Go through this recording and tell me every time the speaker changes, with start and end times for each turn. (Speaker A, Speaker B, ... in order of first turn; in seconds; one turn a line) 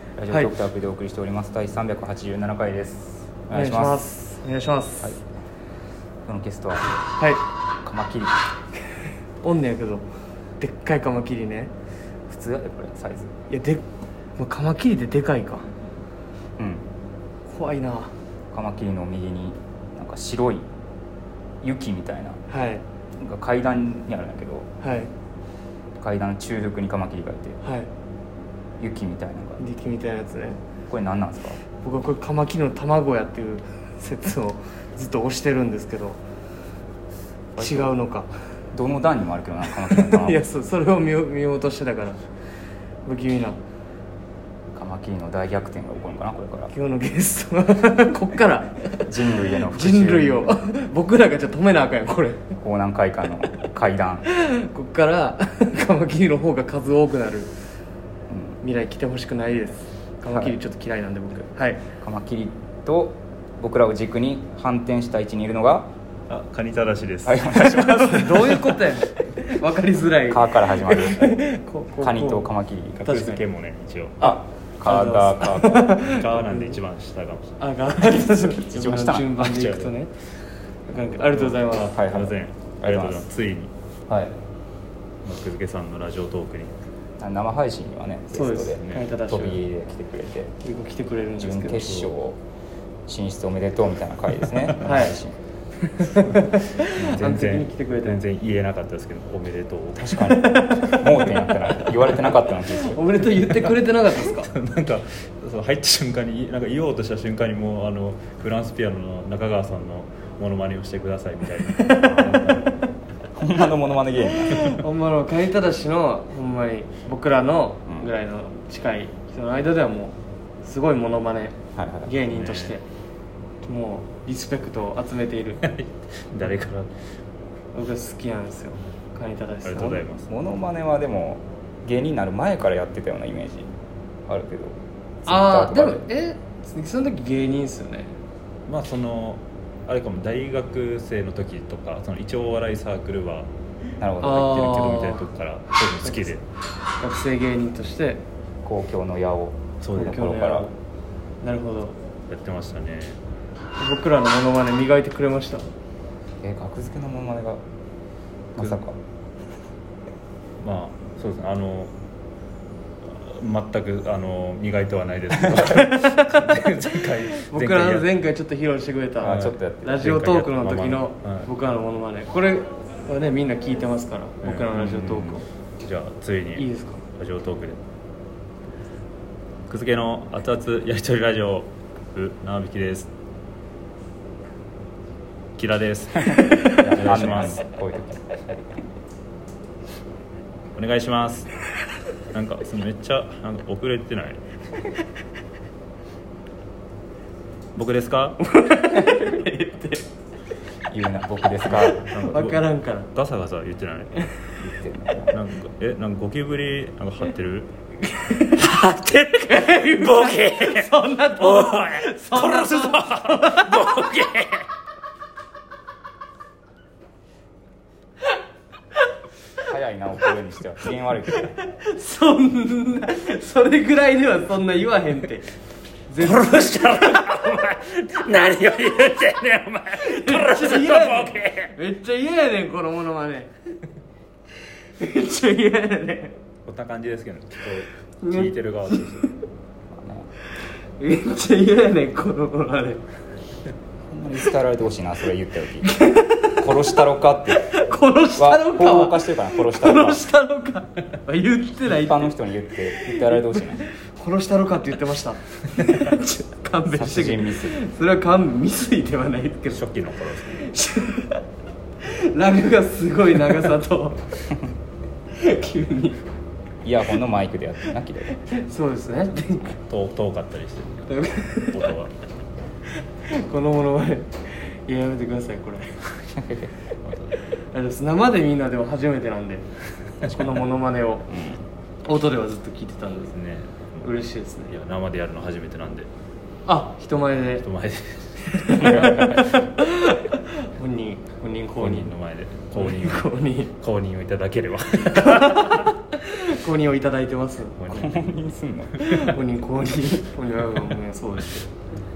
Speaker A: 0.2-4.0
Speaker B: 3.5-5.2
Speaker A: 6.2-7.0
Speaker A: 7.8-8.4
Speaker B: 9.4-10.1
Speaker B: 10.6-11.7
Speaker A: 12.3-13.3
Speaker B: 13.5-13.8
Speaker B: 14.4-15.7
Speaker A: 16.6-16.9
Speaker B: 17.5-18.1
Speaker A: 18.5-20.7
Speaker A: 21.6-22.4
Speaker B: 22.5-22.8
Speaker A: 23.2-24.7
Speaker B: 24.8-25.1
Speaker A: 26.0-27.6
Speaker B: 27.6-27.9
Speaker A: 28.8-29.6
Speaker B: 29.6-30.6
Speaker A: 30.9-31.6
Speaker B: 31.8-36.2
Speaker A: 37.5-38.0
Speaker B: 37.6-38.3
Speaker A: 38.7-40.4
Speaker B: 39.7-42.2
Speaker B: 43.0-43.6
Speaker A: 44.7-46.7
Speaker B: 46.7-52.4
Speaker A: 49.1-50.5
Speaker A: 52.6-54.3
Speaker B: 54.3-57.5
Speaker A: 58.3-58.6
Speaker B: 58.6-61.8
Speaker A: 60.3-60.6
Speaker A: 62.0-65.9
Speaker C: 66.3-67.6
Speaker A: 67.3-68.8
Speaker B: 67.6-72.5
Speaker A: 70.3-71.4
Speaker A: 72.0-73.0
Speaker C: 73.0-74.2
Speaker B: 73.0-73.4
Speaker B: 74.2-76.8
Speaker A: 74.2-76.0
Speaker C: 76.0-77.6
Speaker B: 77.6-80.1
Speaker A: 78.2-79.9
Speaker B: 80.9-82.0
Speaker C: 81.6-83.7
Speaker A: 81.7-83.3
Speaker A: 84.1-84.3
Speaker C: 85.2-86.8
Speaker A: 87.2-90.5
Speaker B: 88.3-89.6
Speaker C: 88.7-89.0
Speaker B: 90.6-92.1
Speaker A: 91.4-92.4
Speaker A: 93.1-95.3
Speaker C: 94.5-95.2
Speaker B: 94.8-95.2
Speaker C: 95.9-100.4
Speaker B: 96.0-98.2
Speaker A: 100.0-103.0
Speaker B: 100.3-101.5
Speaker B: 102.7-104.5
Speaker C: 103.4-112.8
Speaker B: 111.7-112.7
Speaker A: 113.4-114.8
Speaker B: 114.5-122.8
Speaker A: 121.8-122.1
Speaker C: 122.2-122.8
Speaker B: 123.6-125.6
Speaker C: 125.6-126.9
Speaker B: 127.7-130.0
Speaker C: 129.6-130.3
Speaker A: 130.3-133.7
Speaker A: 134.3-136.1
Speaker B: 135.3-138.1
Speaker C: 138.7-143.5
Speaker A: 144.0-145.0
Speaker B: 144.2-145.2
Speaker C: 144.6-146.4
Speaker B: 146.1-146.3
Speaker B: 147.0-148.2
Speaker A: 148.6-150.7
Speaker C: 149.8-150.2
Speaker B: 149.9-150.7
Speaker B: 151.4-152.0
Speaker C: 152.3-153.2
Speaker B: 153.8-155.7
Speaker A: 156.4-157.6
Speaker A: 158.6-159.0
Speaker C: 160.6-161.9
Speaker C: 163.1-168.1
Speaker B: 165.6-166.4
Speaker B: 167.3-175.4
Speaker A: 169.2-170.1
Speaker C: 169.2-171.5
Speaker C: 174.4-177.8
Speaker B: 176.6-177.0
Speaker C: 179.7-183.1
Speaker C: 185.6-187.6
Speaker A: 186.8-188.5
Speaker C: 190.8-191.5
Speaker C: 192.3-194.4
Speaker C: 197.8-198.4
Speaker B: 198.4-200.1
Speaker A: 200.9-202.1
Speaker B: 201.7-203.1
Speaker C: 202.0-204.1
Speaker A: 204.6-205.4
Speaker C: 205.3-207.7
Speaker B: 208.0-213.9
Speaker C: 208.7-209.0
Speaker C: 209.5-214.7
Speaker A: 219.6-221.5
Speaker B: 221.3-225.5
Speaker B: 226.1-227.3
Speaker C: 226.2-231.8
Speaker B: 230.0-233.5
Speaker B: 234.7-236.4
Speaker C: 236.7-239.3
Speaker B: 238.2-239.3
Speaker A: 239.9-240.3
Speaker B: 240.6-243.0
Speaker A: 244.1-246.0
Speaker B: 245.8-246.7
Speaker A: 246.6-247.8
Speaker B: 247.6-252.4
Speaker A: 248.4-250.2
Speaker A: 251.9-253.9
Speaker B: 252.9-259.8
Speaker A: 256.9-257.8
Speaker C: 259.7-260.7
Speaker B: 260.6-261.4
Speaker B: 262.0-264.2
Speaker B: 265.4-266.2
Speaker A: 266.8-268.4
Speaker B: 268.3-269.8
Speaker C: 269.8-271.2
Speaker B: 271.1-271.9
Speaker C: 271.7-272.1
Speaker B: 273.3-276.0
Speaker A: 276.4-276.7
Speaker C: 277.0-277.5
Speaker B: 277.6-279.6
Speaker C: 280.2-280.6
Speaker B: 280.3-281.3
Speaker A: 281.3-281.6
Speaker B: 282.0-283.4
Speaker C: 283.3-284.1
Speaker B: 284.0-284.8
Speaker C: 284.7-286.1
Speaker B: 286.7-287.6
Speaker C: 287.5-289.4
Speaker B: 288.5-292.1
Speaker A: 288.8-289.4
Speaker C: 291.8-295.9
Speaker B: 292.7-293.7
Speaker B: 295.2-298.1
Speaker C: 297.8-298.3
Speaker A: 297.9-299.1
Speaker B: 299.0-301.7